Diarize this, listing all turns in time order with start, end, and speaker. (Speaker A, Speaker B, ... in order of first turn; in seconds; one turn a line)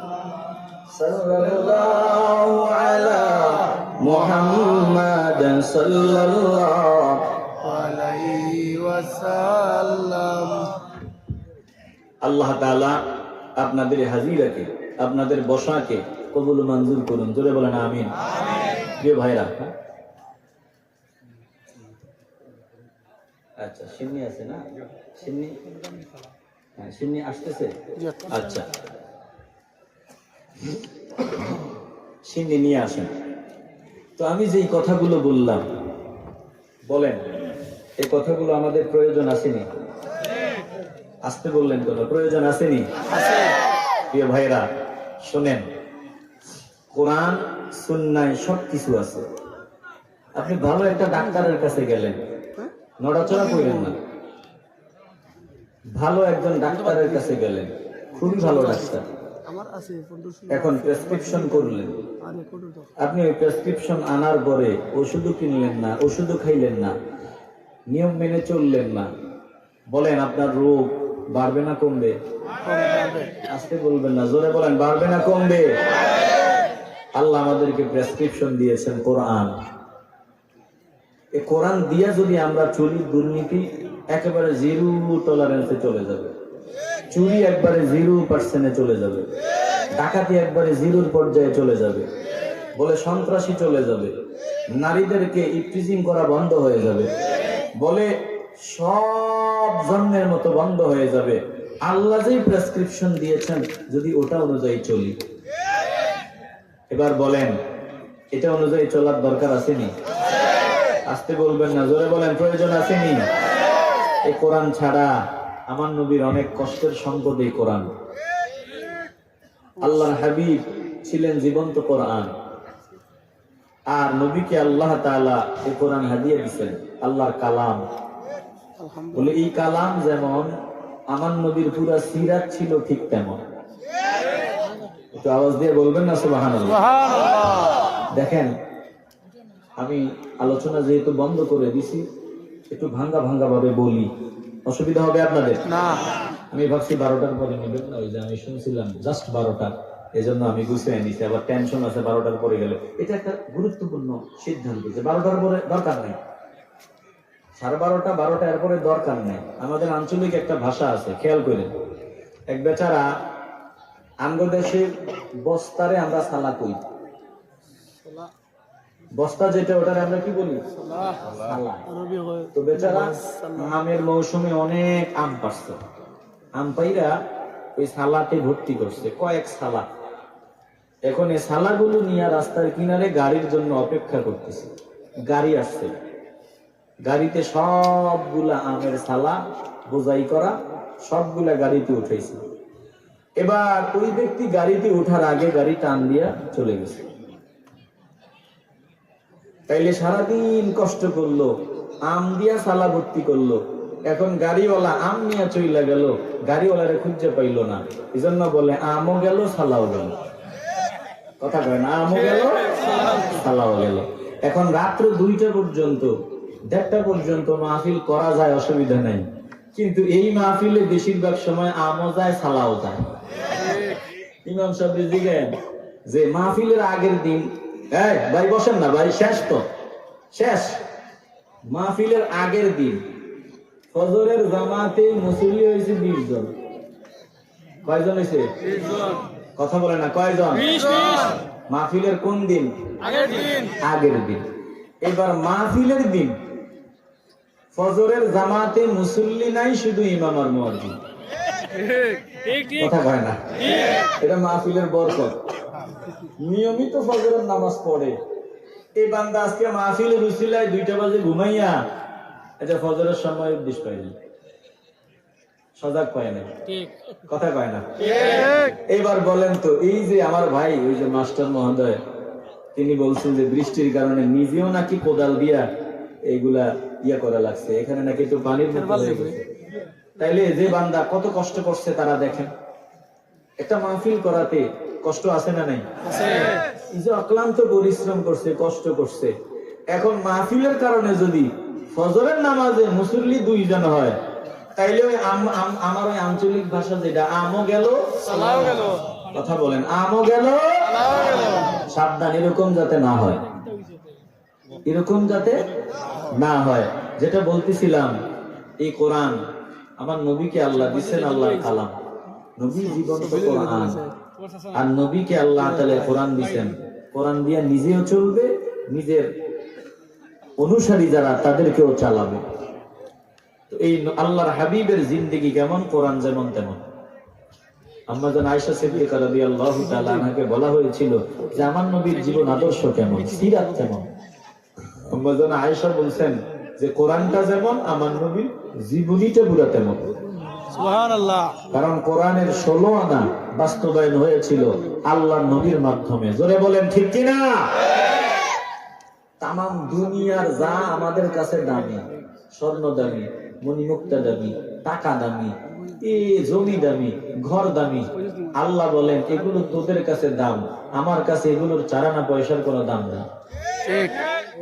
Speaker A: 0.9-7.4
Speaker B: 7.5-10.8
Speaker A: 12.2-13.0
Speaker A: 13.6-18.1
Speaker A: 18.9-19.7
Speaker A: 23.6-25.6
Speaker A: 26.8-27.7
Speaker A: 28.2-28.7
Speaker A: 31.4-31.6
Speaker A: 32.2-33.1
Speaker A: 34.2-35.6
Speaker A: 36.9-37.2
Speaker A: 38.0-39.7
Speaker A: 41.2-42.9
Speaker A: 44.1-44.7
Speaker A: 45.2-45.7
Speaker A: 46.9-49.2
Speaker A: 50.3-52.2
Speaker A: 53.0-54.0
Speaker A: 55.9-59.1
Speaker B: 59.4-60.6
Speaker A: 60.5-62.0
Speaker B: 62.3-62.9
Speaker A: 63.0-66.9
Speaker A: 67.9-69.1
Speaker A: 69.9-72.1
Speaker B: 72.7-73.3
Speaker A: 73.4-75.7
Speaker A: 77.1-79.5
Speaker A: 81.3-86.3
Speaker A: 87.1-89.3
Speaker A: 89.9-92.1
Speaker A: 92.8-94.1
Speaker A: 94.7-97.1
Speaker A: 97.8-105.2
Speaker A: 106.9-107.5
Speaker A: 108.3-109.9
Speaker A: 111.1-113.3
Speaker A: 114.2-115.2
Speaker A: 115.7-117.9
Speaker A: 119.8-122.3
Speaker A: 123.9-127.8
Speaker B: 128.8-129.2
Speaker A: 129.1-130.5
Speaker A: 131.1-133.4
Speaker A: 135.1-136.9
Speaker A: 138.1-138.5
Speaker A: 139.8-142.1
Speaker A: 142.7-144.1
Speaker A: 144.7-145.9
Speaker A: 146.5-156.2
Speaker A: 157.6-161.7
Speaker A: 162.5-163.1
Speaker A: 164.2-166.8
Speaker A: 169.1-170.6
Speaker A: 171.2-171.9
Speaker B: 172.0-173.7
Speaker A: 172.5-175.8
Speaker A: 176.6-177.2
Speaker A: 177.8-179.8
Speaker A: 181.1-184.7
Speaker A: 185.3-185.9
Speaker A: 187.0-192.4
Speaker A: 193.4-197.1
Speaker A: 199.7-201.5
Speaker A: 202.1-210.2
Speaker A: 211.4-216.1
Speaker A: 216.7-223.0
Speaker A: 224.4-225.6
Speaker A: 226.1-229.7
Speaker A: 230.3-230.8
Speaker A: 231.7-233.0
Speaker A: 233.9-236.5
Speaker A: 237.8-238.6
Speaker A: 239.6-244.4
Speaker A: 245.0-246.4
Speaker A: 247.7-251.0
Speaker A: 252.6-255.4
Speaker A: 256.2-258.2
Speaker A: 258.9-261.8
Speaker A: 262.6-264.1
Speaker A: 265.8-266.6
Speaker A: 267.2-272.0
Speaker A: 272.7-275.7
Speaker A: 276.2-279.5
Speaker A: 280.2-282.5
Speaker A: 283.6-289.3
Speaker A: 289.9-294.2
Speaker A: 294.8-303.4
Speaker A: 304.8-305.6
Speaker A: 306.2-308.1
Speaker A: 308.8-309.4
Speaker A: 310.0-311.9
Speaker A: 312.6-314.1
Speaker A: 314.7-319.3
Speaker A: 320.6-322.4
Speaker A: 323.7-326.8
Speaker A: 328.1-334.1
Speaker A: 335.0-340.1
Speaker B: 340.6-341.6
Speaker A: 341.7-347.8
Speaker A: 349.4-363.2
Speaker B: 363.8-364.2